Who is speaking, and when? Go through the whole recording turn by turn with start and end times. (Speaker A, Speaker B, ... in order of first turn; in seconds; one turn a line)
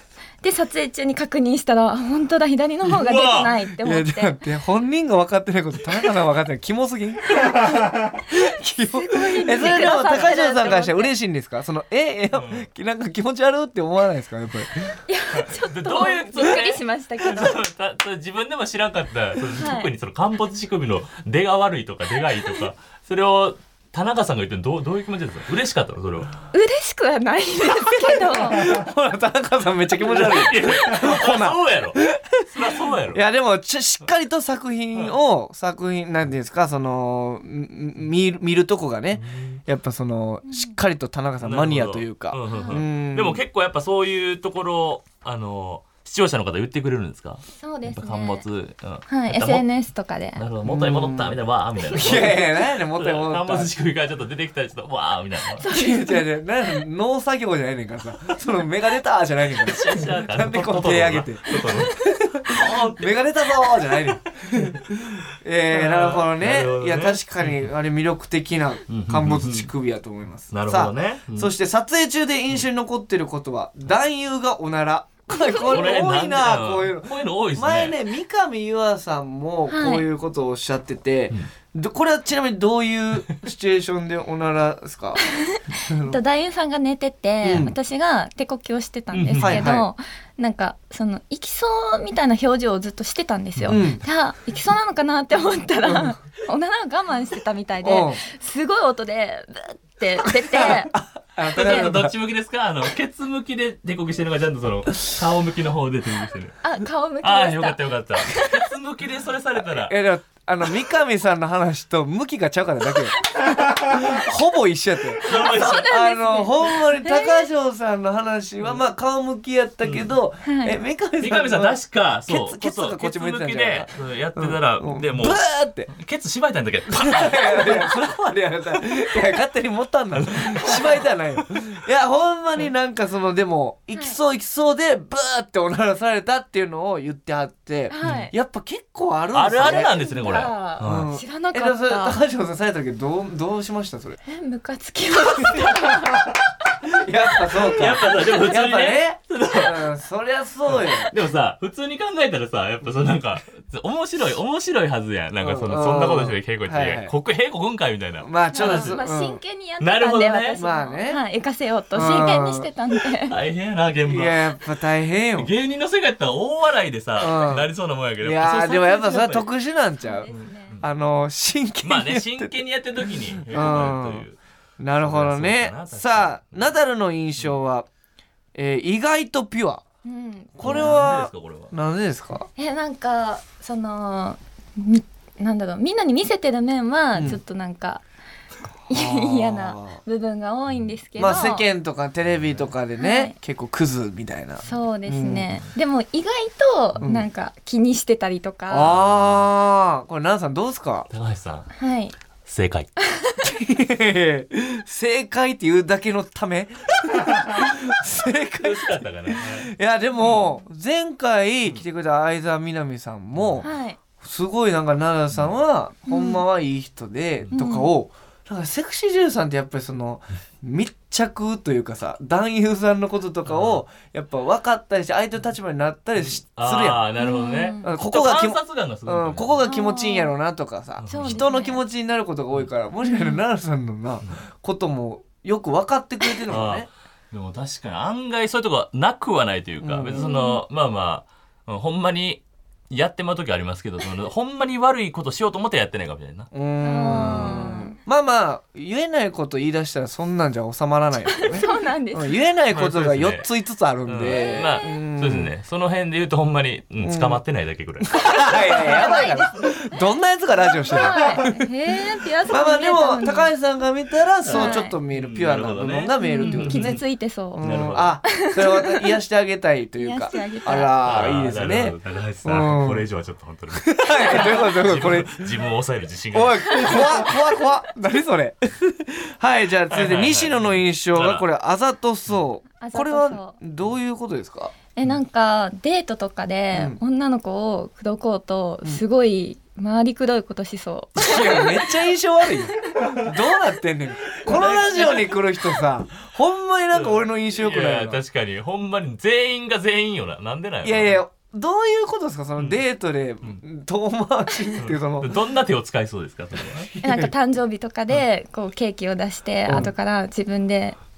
Speaker A: 0.4-4.4
Speaker B: 2.9-3.5
Speaker C: 3.8-15.0
Speaker A: 8.8-11.1
Speaker B: 12.3-12.7
Speaker A: 15.1-17.6
Speaker B: 15.3-26.3
Speaker A: 19.5-19.9
Speaker A: 26.5-28.6
Speaker C: 28.3-43.4
Speaker B: 30.0-33.2
Speaker B: 39.1-39.6
Speaker A: 40.5-40.8
Speaker B: 41.4-49.7
Speaker A: 42.5-42.8
Speaker A: 47.6-48.4
Speaker A: 49.1-50.4
Speaker B: 50.4-55.6
Speaker C: 50.6-51.4
Speaker C: 51.9-53.7
Speaker A: 55.6-56.2
Speaker C: 55.7-85.2
Speaker B: 59.6-63.7
Speaker B: 64.5-64.8
Speaker B: 65.7-67.7
Speaker B: 68.9-69.7
Speaker B: 70.5-71.5
Speaker B: 75.7-78.0
Speaker A: 79.7-80.1
Speaker A: 85.2-100.9
Speaker C: 85.9-86.2
Speaker C: 87.4-87.7
Speaker B: 89.1-89.7
Speaker C: 89.4-89.9
Speaker C: 93.7-94.0
Speaker C: 95.8-96.2
Speaker C: 97.8-98.2
Speaker C: 100.5-102.1
Speaker B: 101.5-106.6
Speaker A: 106.6-108.5
Speaker B: 107.2-110.0
Speaker C: 109.7-125.9
Speaker B: 115.2-115.9
Speaker A: 115.4-117.5
Speaker B: 119.8-120.1
Speaker A: 120.5-120.8
Speaker B: 121.2-128.1
Speaker C: 126.9-144.2
Speaker B: 130.1-131.6
Speaker A: 133.9-134.2
Speaker A: 137.9-138.3
Speaker B: 138.0-138.3
Speaker B: 139.3-141.1
Speaker A: 139.7-142.2
Speaker A: 144.3-146.3
Speaker C: 145.3-146.3
Speaker C: 146.8-151.1
Speaker B: 147.6-149.9
Speaker B: 150.7-159.0
Speaker C: 155.4-157.1
Speaker C: 158.2-159.4
Speaker A: 158.5-163.4
Speaker B: 159.8-160.6
Speaker C: 160.6-161.2
Speaker C: 161.9-162.7
Speaker B: 163.3-164.6
Speaker C: 164.1-165.5
Speaker B: 165.4-169.5
Speaker C: 167.2-167.7
Speaker C: 168.2-172.6
Speaker A: 170.0-170.8
Speaker B: 170.3-170.8
Speaker B: 171.8-174.4
Speaker C: 173.5-174.2
Speaker C: 174.8-177.9
Speaker B: 175.0-176.7
Speaker C: 178.5-179.8
Speaker A: 180.1-181.0
Speaker C: 180.6-182.5
Speaker B: 180.6-181.7
Speaker A: 182.6-188.0
Speaker C: 187.1-187.4
Speaker C: 188.9-190.0
Speaker A: 188.9-191.7
Speaker C: 191.2-195.5
Speaker B: 192.3-192.7
Speaker A: 193.0-193.3
Speaker A: 194.6-198.9
Speaker C: 197.0-197.3
Speaker C: 198.7-201.1
Speaker B: 198.8-199.5
Speaker B: 201.1-201.7
Speaker A: 201.8-202.2
Speaker B: 202.4-202.9
Speaker A: 203.1-203.4
Speaker C: 203.4-213.7
Speaker B: 208.6-210.4
Speaker B: 213.4-213.7
Speaker A: 213.6-214.0
Speaker C: 214.2-227.1
Speaker A: 216.1-216.4
Speaker A: 217.5-217.9
Speaker B: 223.5-223.8
Speaker B: 226.2-229.7
Speaker A: 227.2-227.9
Speaker C: 227.8-236.9
Speaker A: 229.6-230.3
Speaker B: 231.0-231.5
Speaker A: 231.1-231.8
Speaker A: 233.0-233.4
Speaker B: 236.5-246.5
Speaker C: 239.8-240.3
Speaker A: 240.2-240.6
Speaker C: 246.5-255.5
Speaker A: 246.8-248.0
Speaker B: 247.1-247.7
Speaker A: 251.3-252.4
Speaker B: 252.7-253.5
Speaker B: 254.1-258.2
Speaker A: 254.3-254.9
Speaker C: 257.0-257.4
Speaker C: 258.1-261.6
Speaker A: 258.2-259.7
Speaker A: 260.9-263.5
Speaker C: 262.5-267.0
Speaker B: 264.4-267.0
Speaker A: 264.5-264.9
Speaker A: 266.2-267.7
Speaker C: 267.5-273.1
Speaker B: 267.6-268.2
Speaker A: 268.3-269.1
Speaker A: 270.0-270.9
Speaker B: 271.1-277.0
Speaker C: 273.8-275.5
Speaker C: 276.3-284.7
Speaker B: 279.9-281.5
Speaker A: 282.8-283.6
Speaker A: 284.9-291.8
Speaker C: 286.7-287.0
Speaker C: 291.2-298.2
Speaker B: 294.5-295.3
Speaker B: 296.9-301.2
Speaker C: 300.8-305.3
Speaker B: 304.8-306.9
Speaker C: 306.8-307.3
Speaker A: 307.0-311.0